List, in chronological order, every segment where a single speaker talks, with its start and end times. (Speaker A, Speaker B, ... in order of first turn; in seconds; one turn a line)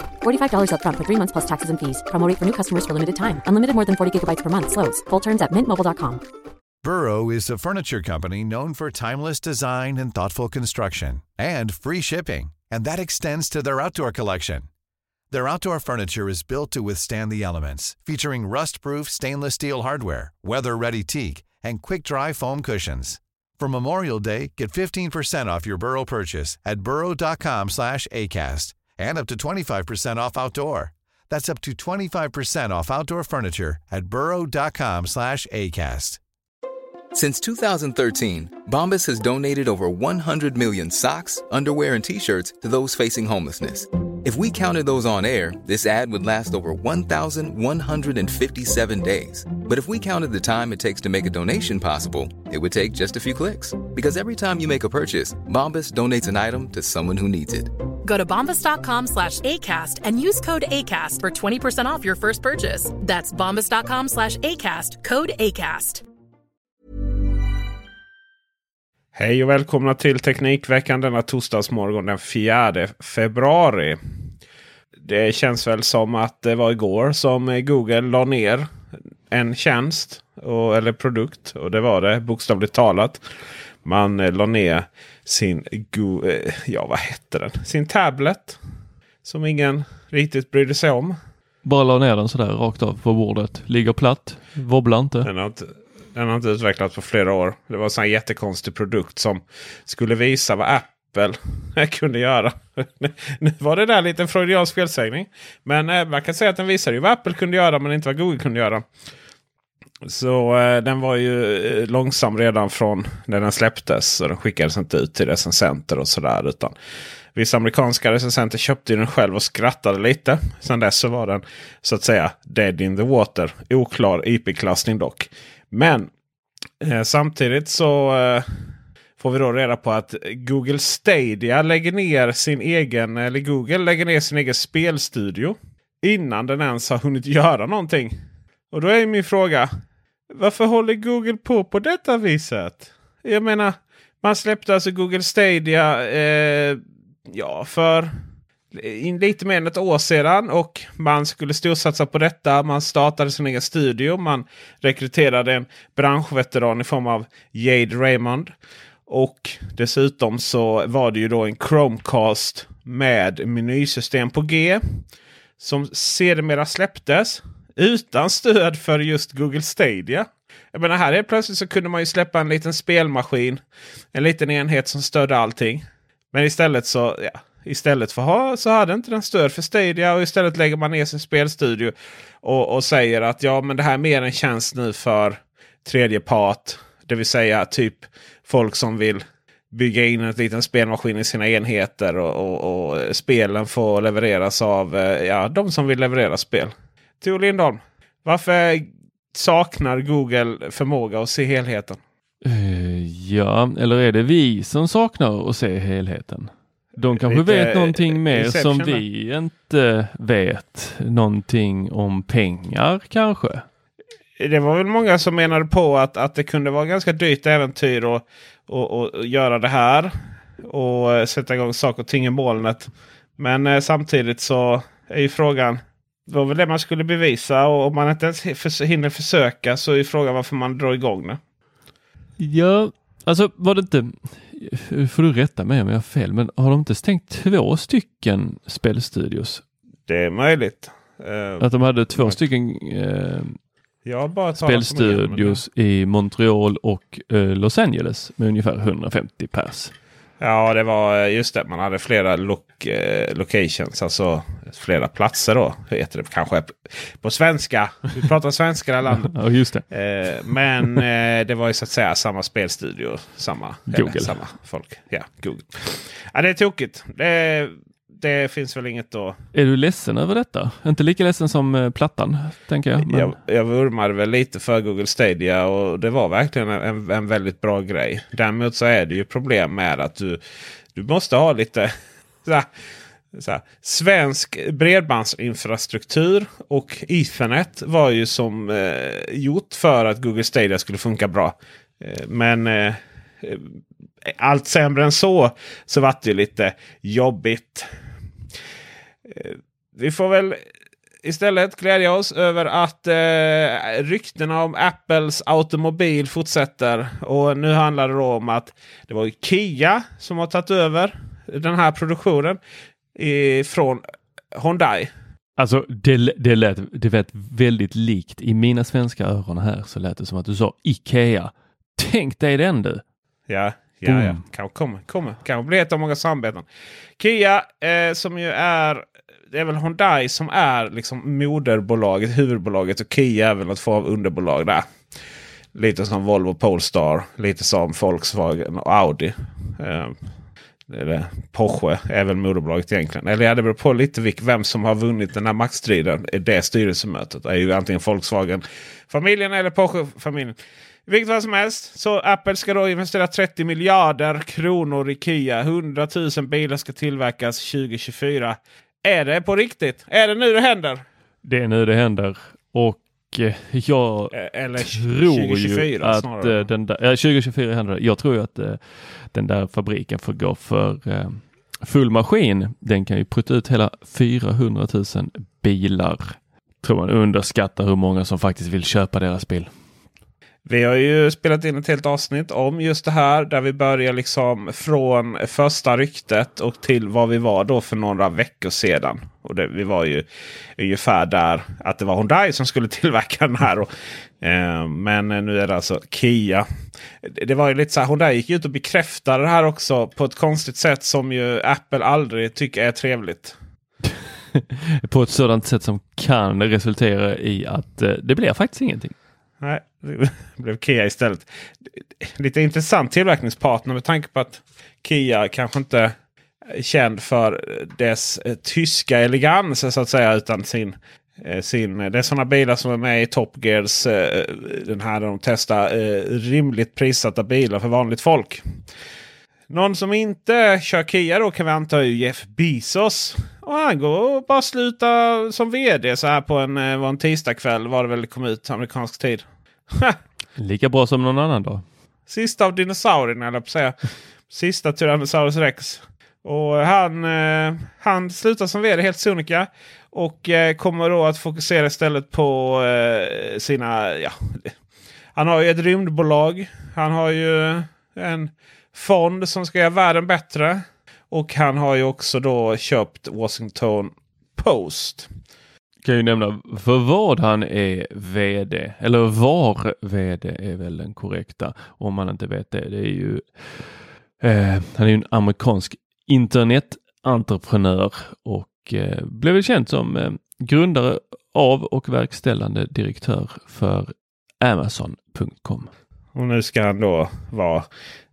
Speaker A: 0.2-6.2
Speaker B: 6.8-14.7
Speaker B: 15.3-36.2
Speaker C: 37.1-57.7
Speaker D: 58.0-66.0
Speaker E: 69.1-74.0
Speaker E: 75.0-78.7
Speaker E: 79.3-83.2
Speaker E: 83.8-88.6
Speaker E: 89.2-91.2
Speaker F: 91.6-95.3
Speaker E: 95.2-108.9
Speaker E: 110.0-116.7
Speaker E: 117.3-126.1
Speaker E: 126.8-128.5
Speaker E: 129.2-138.2
Speaker E: 138.7-139.7
Speaker E: 140.4-148.1
Speaker E: 148.7-158.5
Speaker E: 159.1-165.0
Speaker E: 165.6-173.6
Speaker E: 174.1-202.0
Speaker F: 202.4-213.7
Speaker E: 207.1-209.0
Speaker E: 214.4-220.1
Speaker E: 220.6-231.4
Speaker F: 232.4-239.6
Speaker E: 240.1-242.4
Speaker F: 241.6-243.6
Speaker E: 244.0-245.6
Speaker F: 244.6-249.9
Speaker E: 250.4-259.3
Speaker F: 259.1-259.9
Speaker E: 259.9-269.4
Speaker F: 263.9-264.4
Speaker F: 269.5-273.3
Speaker E: 273.1-280.4
Speaker E: 280.9-281.9
Speaker E: 283.3-293.7
Speaker E: 294.3-297.9
Speaker E: 299.3-300.6
Speaker E: 301.2-312.6
Speaker E: 313.2-314.0
Speaker E: 314.6-315.1
Speaker F: 315.6-323.0
Speaker E: 323.5-326.7
Speaker F: 324.1-324.4
Speaker E: 327.2-334.8
Speaker E: 335.7-340.2
Speaker E: 340.9-350.6
Speaker E: 351.1-361.0
Speaker F: 361.4-379.7
Speaker E: 364.3-366.7
Speaker E: 380.6-390.3
Speaker E: 390.8-396.6
Speaker E: 397.2-403.6
Speaker F: 404.6-409.1
Speaker E: 409.6-411.5
Speaker E: 412.2-416.1
Speaker E: 416.7-428.6
Speaker E: 429.7-440.2
Speaker F: 440.6-441.8
Speaker E: 442.3-444.0
Speaker E: 444.5-454.7
Speaker E: 455.4-465.3
Speaker F: 466.0-473.9
Speaker F: 474.4-485.9
Speaker E: 486.3-487.9